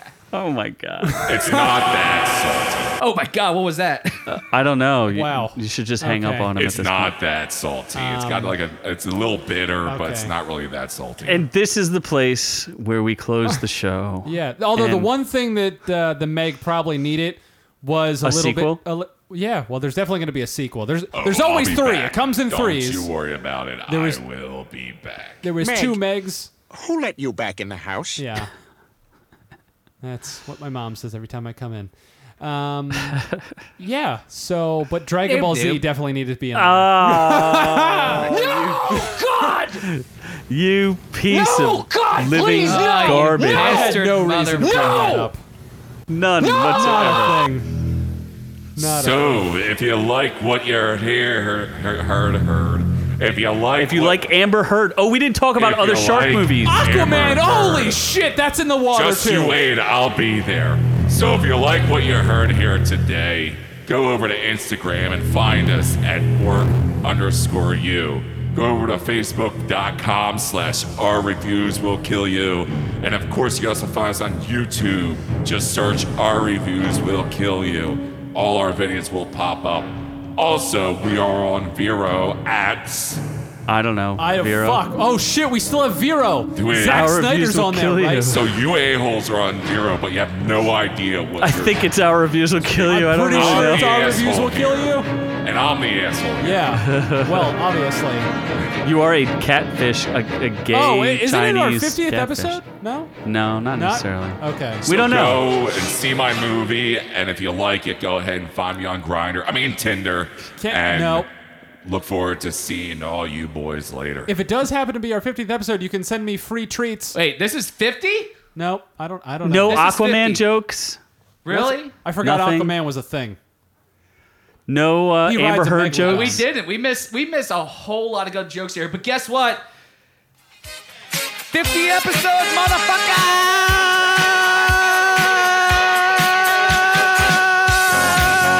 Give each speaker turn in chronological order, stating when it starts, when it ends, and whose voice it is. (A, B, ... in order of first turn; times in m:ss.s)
0:00.3-0:01.3 A
0:01.0-0:01.8 B
0:01.2-0:03.0 C
0:03.0-0:04.2 D
0:04.3-0:07.2 A
0:05.1-0:06.5 B
0:06.6-0:11.5 C
0:07.9-0:08.6 B
0:09.8-0:10.3 B
0:11.3-0:15.1 A
0:14.2-0:23.1 B
0:18.2-0:18.8 A
0:21.1-0:25.5 C
0:23.9-0:24.2 B
0:25.4-0:26.5 B
0:25.6-0:26.0 E
0:26.7-0:28.3 E
0:28.2-0:28.5 B
0:30.0-0:33.2 B
0:33.2-0:33.4 A
0:33.8-0:39.2 B
0:35.2-0:35.8 D
0:36.5-0:44.0 A
0:38.1-0:39.8 D
0:38.9-0:39.6 E
0:41.3-0:43.0 E
0:41.8-0:45.3 D
0:42.7-0:45.4 B
0:44.8-0:45.3 E
0:46.1-0:47.4 A
0:46.4-0:46.8 E
0:46.6-0:47.8 B
0:48.8-0:49.6 B
0:48.8-0:54.3 C
0:53.8-0:56.8 A
0:55.6-0:58.1 C
0:56.6-0:59.6 B
0:58.9-1:23.2 C
1:23.7-1:24.8 A
1:24.2-1:28.4 B
1:26.6-1:27.2 C
1:26.8-1:28.4 A
1:28.2-1:31.9 C
1:31.4-1:34.0 A
1:32.6-1:36.6 C
1:32.8-1:35.1 B
1:36.4-1:38.3 B
1:36.8-1:37.6 A
1:38.8-1:42.6 A
1:40.7-1:43.1 B
1:43.2-1:45.5 A
1:43.7-1:44.9 B
1:44.8-1:51.3 C
1:50.6-1:51.3 B
1:51.8-1:54.3 C
1:54.3-1:57.2 B
1:57.1-1:58.3 D
1:58.6-1:59.9 B
1:59.4-2:01.0 A
1:59.6-2:00.4 D
2:01.4-2:02.0 D
2:01.5-2:03.4 B
2:02.2-2:02.7 A
2:04.7-2:06.4 A
2:05.2-2:06.4 B
2:06.0-2:09.7 D
2:11.5-2:14.5 D